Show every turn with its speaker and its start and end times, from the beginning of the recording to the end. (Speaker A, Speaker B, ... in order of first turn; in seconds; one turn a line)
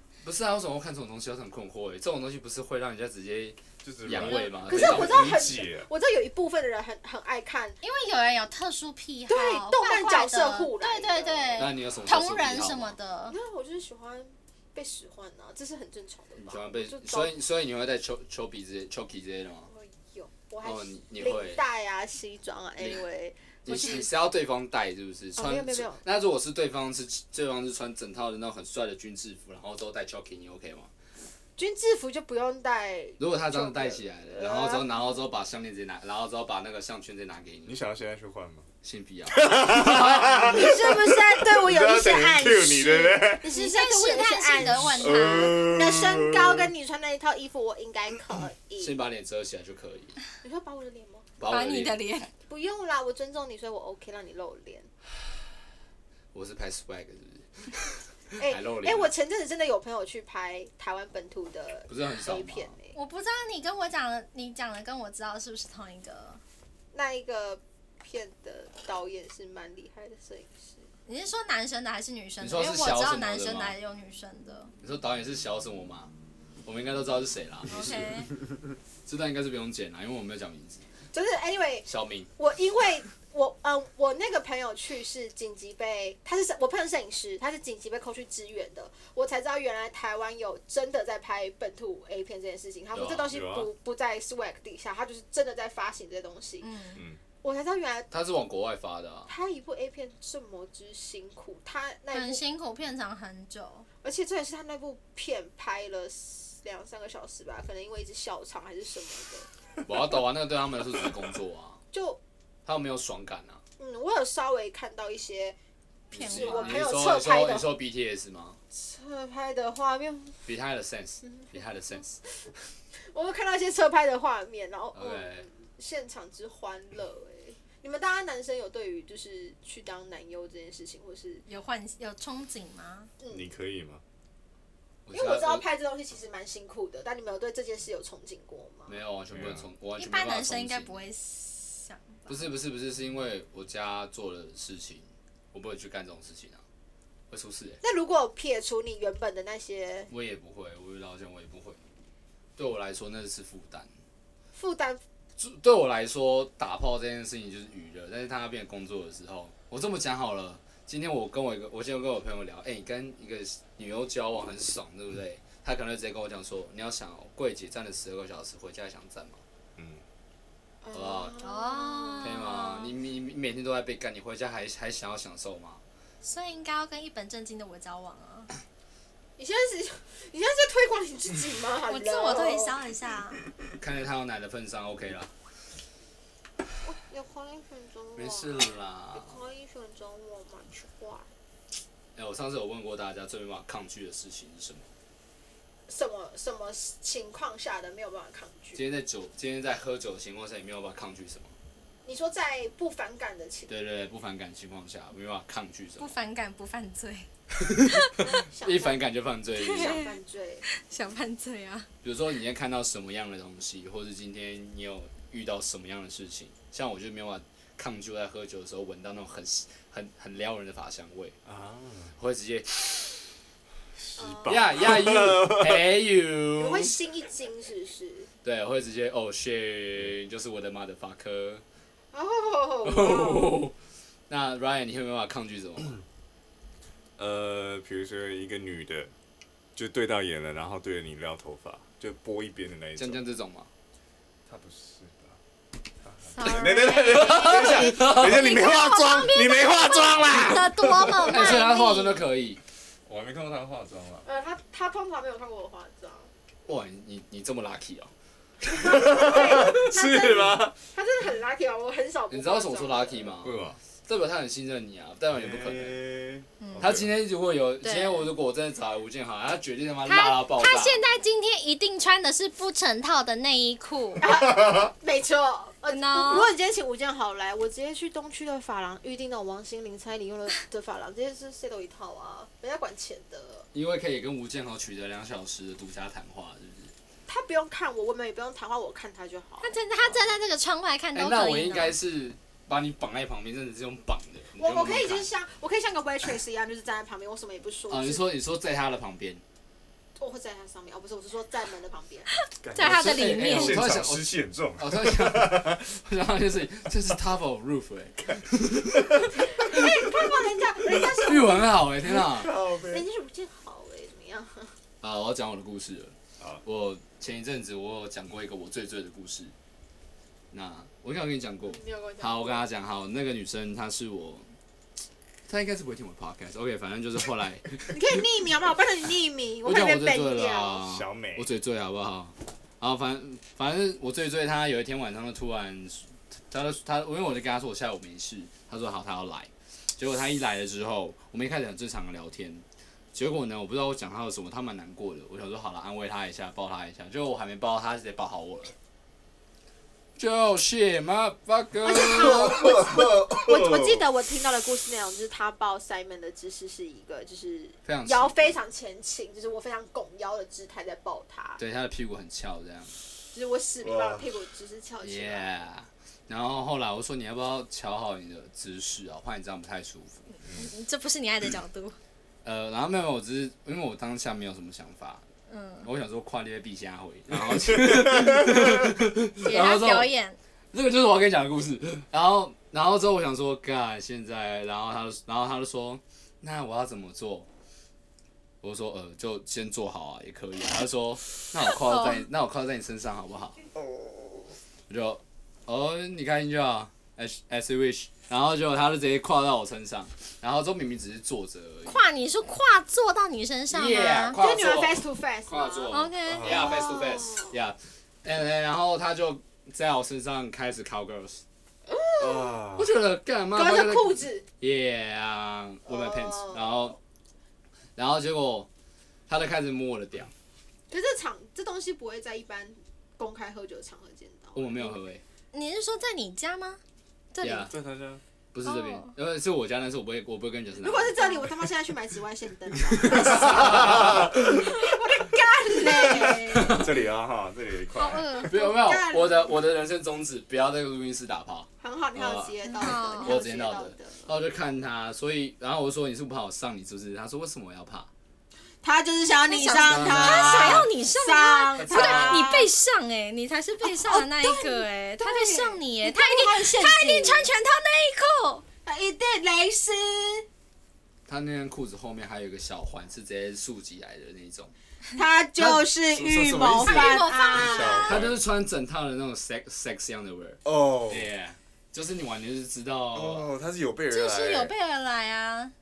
Speaker A: 0.2-5.3
Speaker B: 3.8-5.9
Speaker C: 4.1-4.5
Speaker D: 4.7-7.8
Speaker C: 7.8-13.4
Speaker D: 9.3-11.7
Speaker A: 11.6-13.0
Speaker D: 13.3-17.4
Speaker A: 16.4-19.7
Speaker D: 19.7-24.1
Speaker A: 20.6-21.6
Speaker A: 22.8-23.0
Speaker A: 23.6-30.9
Speaker D: 25.4-26.0
Speaker D: 31.6-35.0
Speaker A: 33.2-37.7
Speaker B: 37.6-38.7
Speaker A: 38.8-40.5
Speaker B: 39.3-43.5
Speaker D: 40.4-49.0
Speaker C: 43.4-45.6
Speaker B: 44.9-46.6
Speaker A: 48.8-50.2
Speaker D: 50.4-51.3
Speaker A: 51.4-52.0
Speaker C: 51.5-52.3
Speaker D: 52.5-54.9
Speaker A: 56.3-59.1
Speaker D: 58.4-63.0
Speaker A: 61.9-62.7
Speaker C: 62.9-66.4
Speaker D: 66.9-70.9
Speaker C: 71.1-74.7
Speaker A: 72.4-73.8
Speaker A: 74.8-76.1
Speaker A: 76.7-78.3
Speaker C: 77.7-78.3
Speaker A: 79.1-80.8
Speaker D: 81.1-96.7
Speaker A: 81.9-82.3
Speaker A: 92.9-93.4
Speaker B: 93.3-93.7
Speaker C: 96.6-97.0
Speaker D: 97.4-98.1
Speaker A: 98.1-99.3
Speaker D: 99.3-102.4
Speaker C: 102.1-103.9
Speaker D: 104.0-109.5
Speaker A: 109.8-111.8
Speaker D: 111.9-112.2
Speaker A: 112.7-113.6
Speaker D: 113.8-115.6
Speaker C: 116.1-116.9
Speaker A: 116.1-118.6
Speaker D: 116.2-117.7
Speaker D: 118.7-120.5
Speaker A: 120.5-122.2
Speaker D: 121.2-131.4
Speaker A: 124.9-125.5
Speaker C: 131.5-133.1
Speaker D: 133.2-133.5
Speaker B: 133.3-134.0
Speaker A: 135.1-135.7
Speaker D: 135.1-139.0
Speaker A: 138.9-141.0
Speaker B: 139.3-139.7
Speaker C: 140.0-142.5
Speaker A: 142.3-146.6
Speaker A: 147.3-147.8
Speaker D: 147.8-150.1
Speaker A: 150.1-151.8
Speaker A: 152.6-153.9
Speaker D: 154.5-155.0
Speaker A: 155.4-169.4
Speaker B: 169.8-170.0
Speaker D: 170.8-172.4
Speaker A: 170.9-171.4
Speaker C: 171.4-172.9
Speaker A: 172.2-175.8
Speaker C: 176.2-178.5
Speaker D: 179.4-182.8
Speaker C: 181.9-183.4
Speaker A: 183.8-185.3
Speaker D: 186.8-191.3
Speaker A: 188.2-189.4
Speaker A: 192.2-194.9
Speaker D: 195.9-198.8
Speaker A: 198.8-201.5
Speaker D: 202.1-203.7
Speaker A: 203.7-206.1
Speaker C: 206.0-207.3
Speaker C: 207.8-208.1
Speaker D: 208.2-209.1
Speaker A: 208.6-210.0
Speaker C: 209.6-210.1
Speaker D: 209.7-210.6
Speaker C: 210.7-211.9
Speaker A: 212.0-221.4
Speaker B: 221.4-222.1
Speaker A: 222.2-223.2
Speaker B: 224.0-225.9
Speaker D: 224.2-225.0
Speaker A: 224.5-226.9
Speaker D: 226.6-228.3
Speaker A: 228.4-231.6
Speaker D: 232.1-233.6
Speaker A: 232.8-233.7
Speaker A: 234.3-236.0
Speaker B: 237.2-239.1
Speaker B: 239.8-243.2
Speaker A: 243.0-243.7
Speaker B: 244.5-245.4
Speaker B: 246.0-251.3
Speaker C: 246.3-252.3
Speaker A: 246.5-248.5
Speaker A: 251.2-252.6
Speaker B: 253.1-254.3
Speaker D: 254.2-256.3
Speaker A: 256.7-258.1
Speaker D: 258.7-263.4
Speaker B: 258.9-260.8
Speaker A: 262.3-266.0
Speaker B: 263.4-263.8
Speaker B: 265.3-267.1
Speaker C: 266.6-266.9
Speaker A: 266.8-271.0
Speaker C: 267.8-268.3
Speaker C: 270.0-274.2
Speaker D: 274.2-283.7
Speaker C: 275.9-276.5
Speaker A: 283.7-286.9
Speaker D: 287.3-289.7
Speaker C: 289.6-292.0
Speaker A: 291.1-295.3
Speaker D: 294.6-298.2
Speaker A: 297.9-299.4
Speaker D: 300.2-302.3
Speaker C: 302.5-303.8
Speaker B: 302.6-305.8
Speaker A: 302.8-309.2
Speaker D: 309.4-311.7
Speaker A: 311.0-312.5
Speaker B: 312.0-313.0
Speaker D: 312.8-314.8
Speaker A: 315.0-319.5
Speaker A: 320.5-324.5
Speaker D: 321.6-322.7
Speaker A: 325.5-328.2
Speaker D: 327.9-330.9
Speaker A: 329.6-348.7
Speaker B: 330.9-331.5
Speaker A: 350.2-352.8
Speaker D: 351.8-361.6
Speaker B: 352.2-354.0
Speaker A: 357.9-358.6
Speaker A: 361.6-362.9
Speaker D: 363.3-365.5
Speaker B: 363.8-364.2
Speaker A: 365.0-370.2
Speaker C: 370.4-372.0
Speaker A: 372.4-375.2
Speaker C: 375.5-375.9
Speaker A: 375.8-380.1
Speaker C: 379.4-380.4
Speaker A: 380.7-387.5
Speaker A: 388.6-393.6
Speaker C: 391.6-392.3
Speaker A: 394.9-402.1
Speaker C: 401.9-404.4
Speaker A: 403.7-411.4
Speaker D: 404.4-407.6
Speaker C: 405.9-406.7
Speaker B: 406.3-406.8
Speaker D: 411.9-412.6
Speaker B: 412.2-412.9
Speaker A: 412.8-417.0
Speaker D: 413.5-414.5
Speaker D: 415.9-416.8
Speaker A: 418.0-418.7
Speaker A: 419.3-420.3
Speaker D: 420.9-424.9
Speaker A: 424.5-425.2
Speaker C: 425.5-426.8
Speaker C: 427.3-427.7
Speaker A: 427.4-427.7
Speaker B: 427.7-428.2
Speaker A: 428.5-431.1
Speaker C: 428.6-429.1
Speaker D: 430.8-436.7
Speaker C: 431.2-431.5
Speaker A: 433.0-434.5
Speaker B: 433.1-434.2
Speaker B: 436.0-438.5
Speaker A: 436.5-436.9
Speaker C: 437.9-438.8
Speaker A: 438.4-448.1
Speaker D: 438.8-439.5
Speaker D: 441.8-444.3
Speaker C: 442.7-443.4
Speaker D: 448.8-452.7
Speaker C: 449.5-458.7
Speaker A: 449.8-450.9
Speaker A: 451.8-452.5
Speaker D: 453.8-457.5
Speaker D: 458.8-460.5
Speaker A: 461.3-464.7
Speaker D: 465.1-468.1
Speaker A: 465.6-465.9
Speaker B: 466.1-468.4
Speaker C: 466.8-468.2
Speaker A: 468.1-470.6
Speaker B: 470.6-471.3
Speaker A: 471.1-473.5
Speaker B: 473.1-474.7
Speaker C: 474.1-475.7